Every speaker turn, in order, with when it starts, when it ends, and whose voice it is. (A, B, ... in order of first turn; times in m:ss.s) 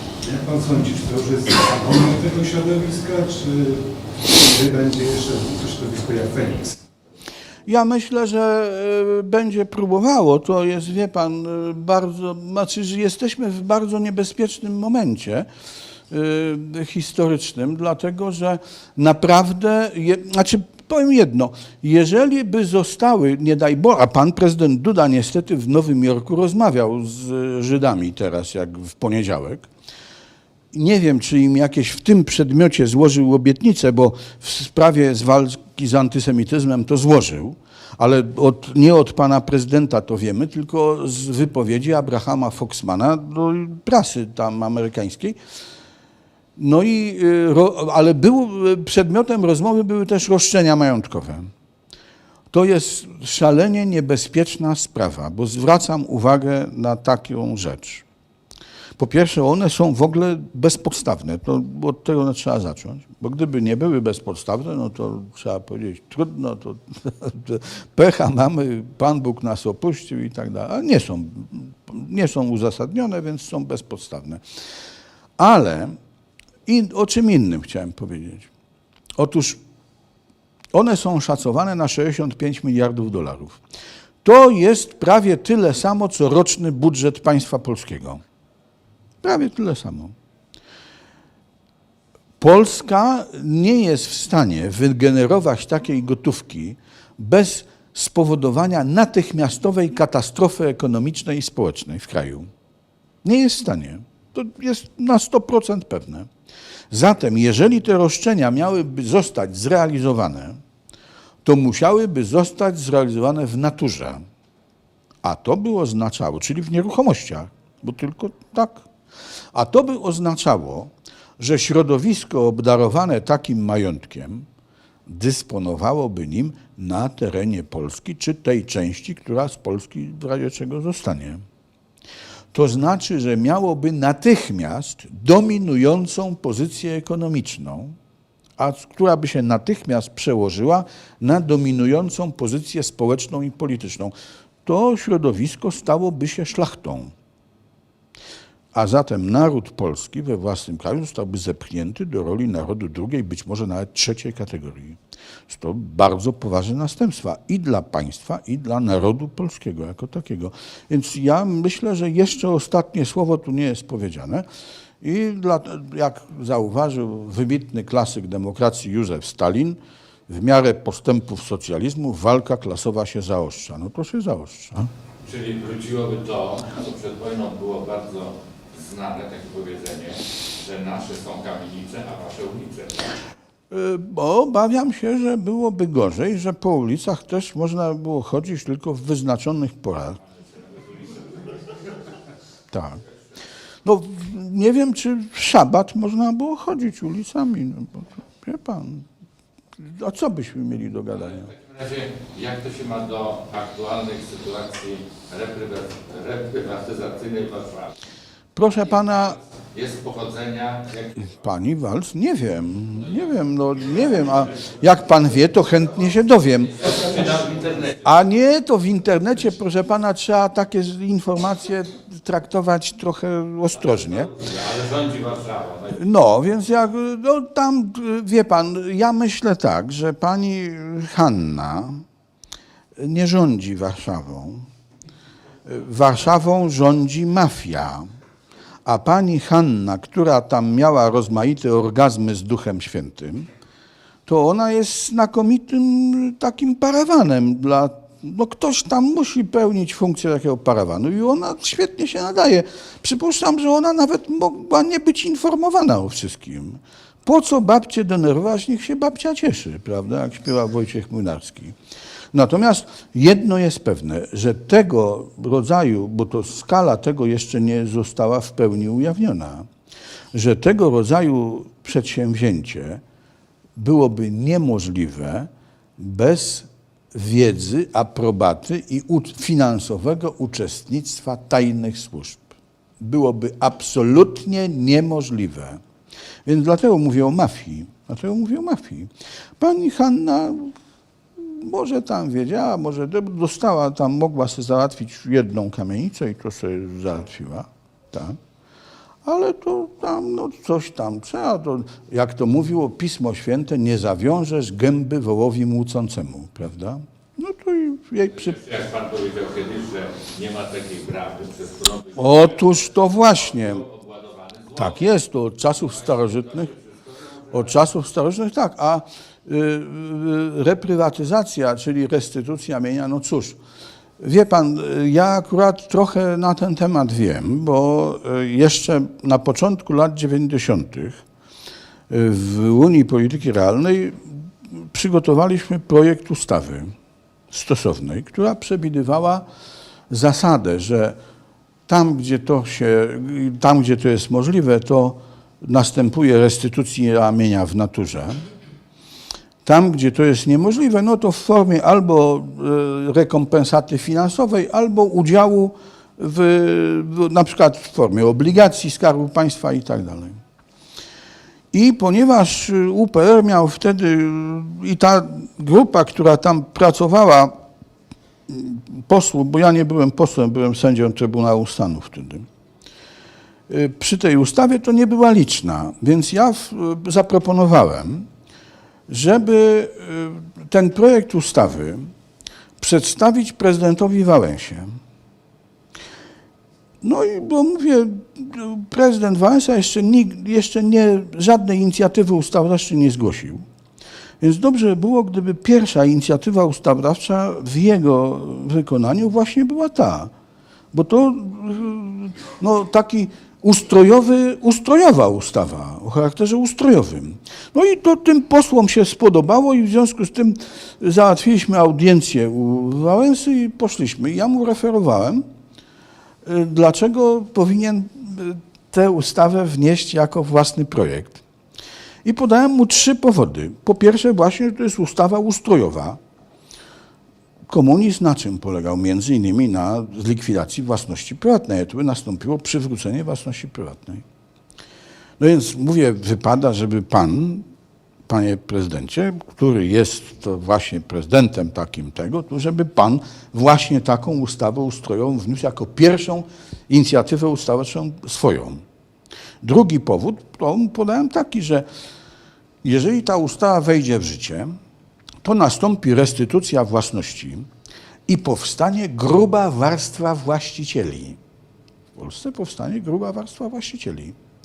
0:00.2-0:06.8 A
0:07.7-0:15.5 B
0:16.1-0:29.7 B
0:30.7-0:45.4 B
0:46.6-0:51.5 B
0:52.5-0:58.0 B
0:59.0-1:14.4 B
1:15.4-1:16.0 B
1:16.7-1:18.5 B
1:19.2-1:19.6 B
1:20.7-1:23.6 B
1:24.2-1:28.2 B
1:29.2-1:30.1 B
1:32.4-1:42.5 B
1:43.2-1:46.3 B
1:46.9-1:50.6 B
1:51.4-1:54.2 B
1:55.2-1:58.9 B
1:59.5-2:04.5 B
2:05.1-2:11.4 B
2:12.5-2:18.0 B
2:18.6-2:24.1 B
2:24.6-2:27.1 B
2:28.7-2:44.5 B
2:45.0-2:54.9 B
2:55.2-3:03.2 C
3:03.7-3:10.2 B
3:10.3-3:11.5 C
3:12.7-3:13.0 B
3:13.8-3:19.1 B
3:19.8-3:21.5 B
3:21.3-3:27.9 C
3:28.6-3:29.4 B
3:29.7-3:31.4 C
3:31.4-3:37.2 B
3:36.7-3:38.1 C
3:38.0-3:44.3 B
3:43.8-3:46.0 C
3:45.9-3:52.0 B
3:53.0-3:54.7 B
3:55.7-3:58.1 B
3:58.8-4:03.5 B
4:04.3-4:21.8 B
4:22.3-4:29.7 B
4:30.3-4:33.0 B
4:33.8-4:45.8 B
4:46.4-4:50.7 B
4:51.4-4:58.4 B
4:59.2-5:08.6 B
5:08.4-5:15.1 C
5:12.2-5:13.8 B
5:14.8-5:16.7 B
5:15.7-5:17.6 C
5:17.5-5:23.6 B
5:24.2-5:31.2 B
5:32.1-5:36.9 B
5:37.5-5:39.4 B
5:40.1-5:41.2 B
5:41.9-5:48.4 B
5:49.6-6:00.4 B
6:01.7-6:07.6 B
6:08.5-6:12.5 B
6:13.7-6:18.3 B
6:19.1-6:22.1 B
6:22.8-6:25.0 B
6:27.0-6:33.6 B
6:34.4-6:40.3 B
6:40.9-6:55.4 B
6:56.4-7:01.4 B
7:02.2-7:06.2 B
7:07.7-7:14.2 B
7:15.4-7:17.7 B
7:18.3-7:28.8 B
7:29.6-7:31.9 B
7:32.8-7:34.8 B
7:35.4-7:37.7 B
7:38.3-7:41.4 B
7:42.1-7:44.4 B